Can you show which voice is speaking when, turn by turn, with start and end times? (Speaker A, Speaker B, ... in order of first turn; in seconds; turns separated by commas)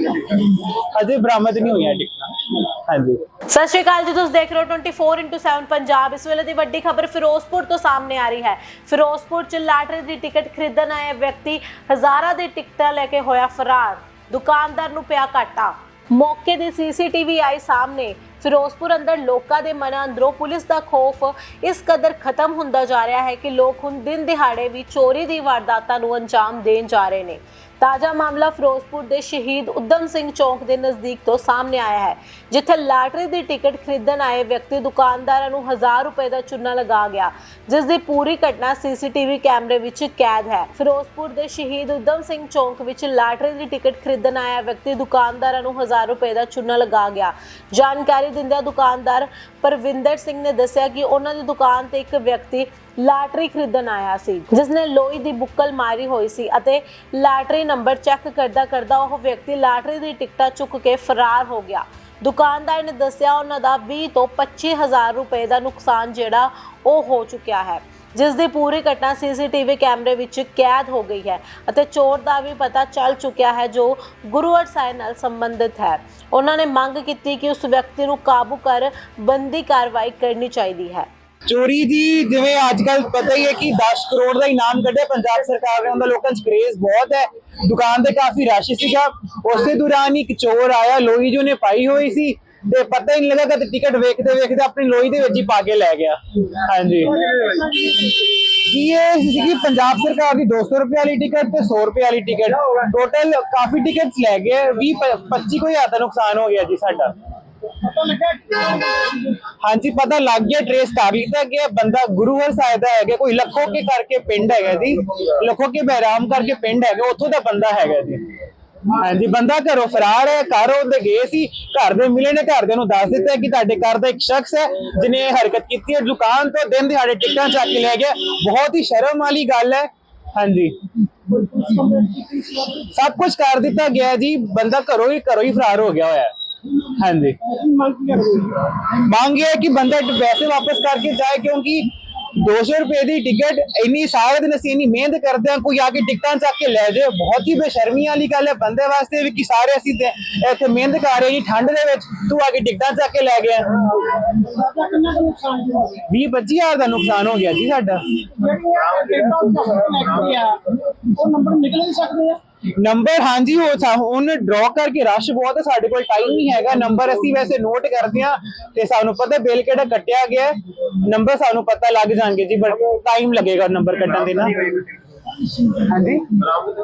Speaker A: 0.5-3.2, Speaker B: 3.5-81.1, Speaker A: 81.5-97.1, Speaker C: 97.0-98.2, Speaker A: 98.4-107.1, Speaker C: 107.8-109.4, Speaker A: 109.6-118.2, Speaker A: 119.0-130.7, Speaker C: 131.3-132.8, Speaker A: 132.9-136.3, Speaker A: 137.0-137.4, Speaker C: 137.4-138.7, Speaker A: 138.9-153.7, Speaker C: 154.3-156.0, Speaker A: 156.1-158.0, Speaker C: 158.3-162.4, Speaker A: 162.8-170.5, Speaker A: 171.1-174.7, Speaker A: 175.8-176.4